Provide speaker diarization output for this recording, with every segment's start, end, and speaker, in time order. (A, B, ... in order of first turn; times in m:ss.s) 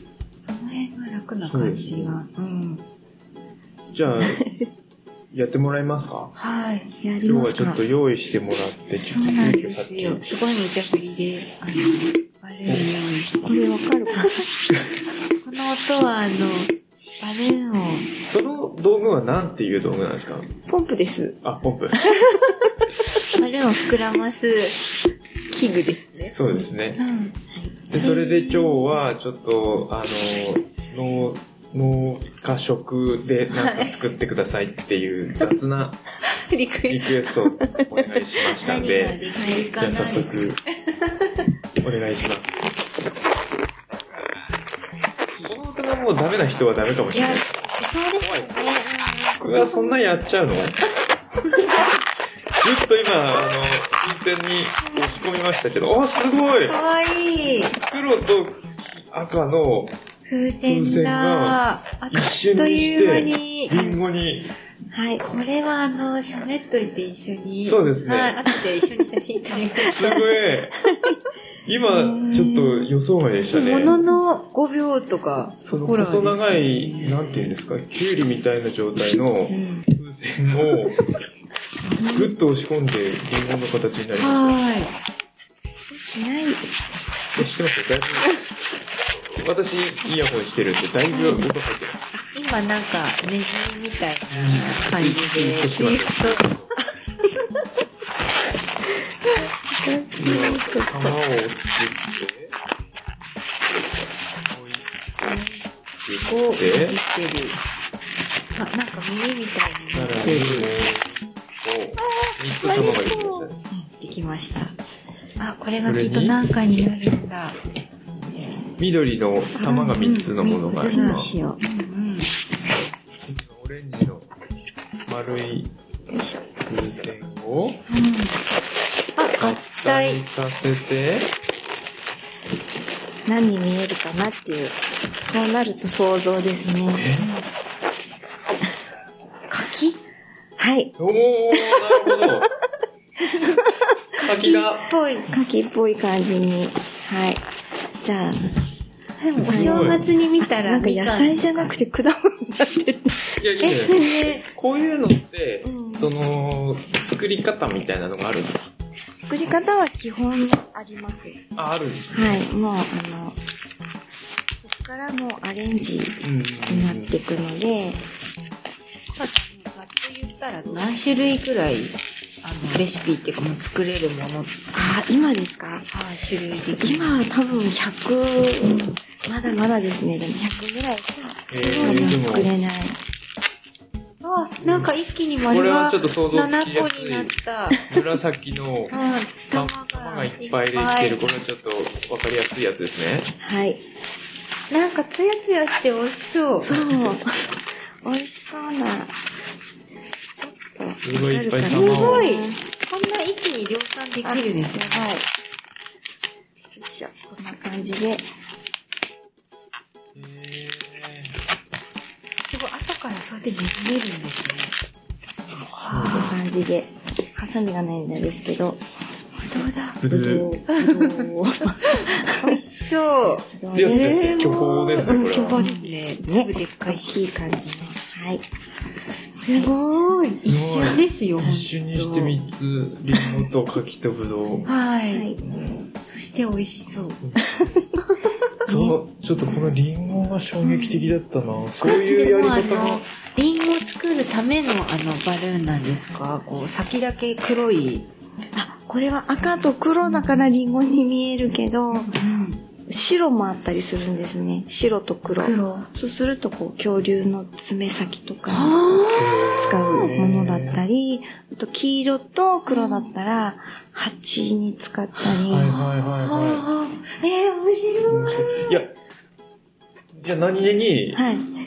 0:00.4-0:02.8 A
0:01.5-0:02.2 B
0:03.9-0:04.5 B
0:04.4-0:04.6 C
0:05.3-0:06.3 B
0:06.3-0:06.9 A
0:07.0-0:07.8 C
0:07.2-0:10.3 B
0:09.0-0:13.6 A
0:13.4-0:14.4 C
0:14.1-0:14.4 A
0:15.4-0:18.1 A
0:18.2-0:20.5 B
0:20.7-0:21.4 C
0:21.4-0:22.0 B
0:22.1-0:22.6 C
0:23.2-0:27.4 A
0:26.3-0:27.0 B
0:27.9-0:36.0 B
0:28.0-0:28.9 A
0:33.5-0:33.9 A
0:36.4-0:37.2 A
0:36.9-0:39.2 B
0:38.6-0:40.4 A
0:39.3-0:39.7 C
0:39.7-0:40.6 B
0:41.8-0:42.8 B
0:45.4-0:48.7 B
0:47.1-0:49.9 A
0:49.4-0:50.8 B
0:52.6-0:56.8 B
0:56.7-0:57.8 A
0:57.8-1:00.0 B
1:00.3-1:03.9 A
1:00.6-1:04.5 B
1:04.9-1:05.2 C
1:05.2-1:10.3 A
1:07.6-1:08.4 B
1:09.8-1:10.8 B
1:11.6-1:14.0 B
1:12.1-1:12.5 A
1:13.5-1:17.5 A
1:13.9-1:14.2 C
1:15.6-1:21.0 B
1:19.5-1:19.8 A
1:21.8-1:22.3 C
1:22.0-1:24.6 B
1:24.2-1:24.9 A
1:25.9-1:26.7 C
1:27.4-1:28.4 B
1:29.2-1:32.0 B
1:32.2-1:36.5 A
1:34.3-1:36.7 B
1:39.7-1:41.2 C
1:40.2-1:42.5 B
1:44.5-1:47.0 B
1:46.2-1:47.6 A
1:48.5-1:50.8 A
1:49.8-1:53.6 B
1:52.6-1:54.7 C
1:55.4-1:57.6 A
1:55.8-1:56.4 B
1:58.8-2:01.3 B
1:59.6-2:01.6 C
1:59.7-2:02.3 A
2:03.1-2:04.3 B
2:05.1-2:05.7 B
2:06.1-2:06.5 C
2:06.7-2:07.8 B
2:07.9-2:08.4 A
2:09.2-2:10.2 A
2:09.4-2:11.3 B
2:13.2-2:17.1 C
2:16.9-2:17.3 B
2:17.2-2:17.4 A
2:19.5-2:20.0 A
2:20.6-2:20.9 C
2:21.0-2:22.5 B
2:21.5-2:22.3 C
2:24.2-2:24.9 B
2:24.2-2:25.3 A
2:25.3-2:27.4 C
2:28.0-2:28.6 C
2:29.2-2:31.7 A
2:29.4-2:30.0 B
2:29.4-2:33.3 C
2:33.4-2:38.7 B
2:33.6-2:34.5 A
2:35.6-2:36.1 C
2:39.2-2:41.4 C
2:41.6-2:42.4 B
2:42.1-2:43.4 C
2:44.5-2:48.0 C
2:46.2-2:47.2 B
2:49.1-2:55.0 A
2:54.7-2:55.9 C
2:55.9-2:57.3 A
2:56.8-3:03.0 C
3:01.5-3:02.5 B
3:01.5-3:02.2 A
3:04.2-3:07.8 A
3:04.6-3:04.9 B
3:05.5-3:07.3 B
3:07.9-3:09.0 B
3:08.9-3:11.4 A
3:09.5-3:13.3 B
3:13.4-3:13.8 C
3:14.7-3:16.8 A
3:16.6-3:19.1 C
3:16.7-3:17.2 B
3:20.3-3:22.5 C
3:21.0-3:22.3 B
3:21.6-3:25.1 A
3:24.2-3:25.3 C
3:26.7-3:28.2 C
3:30.1-3:31.3 B
3:32.4-3:34.8 A
3:35.6-3:38.8 C
3:35.7-3:36.3 B
3:35.9-3:36.2 A
3:39.4-3:42.6 C
3:39.5-3:40.0 A
3:40.0-3:40.5 B
3:40.7-3:41.3 A
3:41.9-3:47.2 A
3:43.5-3:44.6 C
3:43.7-3:45.6 B
3:45.6-3:48.5 C
3:49.4-3:52.4 A
3:50.4-3:54.7 B
3:54.7-3:55.4 A
3:55.1-3:55.4 C
3:56.0-3:57.2 A
3:57.2-3:57.8 B
3:58.6-3:59.0 C
3:58.6-4:03.0 B
4:00.6-4:01.1 A
4:01.8-4:08.1 A
4:08.5-4:12.2 C
4:10.0-4:10.5 A
4:11.9-4:12.6 A
4:12.8-4:25.8 C
4:15.3-4:15.9 A
4:18.5-4:19.5 A
4:19.1-4:20.8 B
4:22.7-4:23.1 A
4:25.5-4:26.6 B
4:25.6-4:28.7 A
4:28.0-4:28.9 B
4:30.1-4:31.2 B
4:31.1-4:31.5 C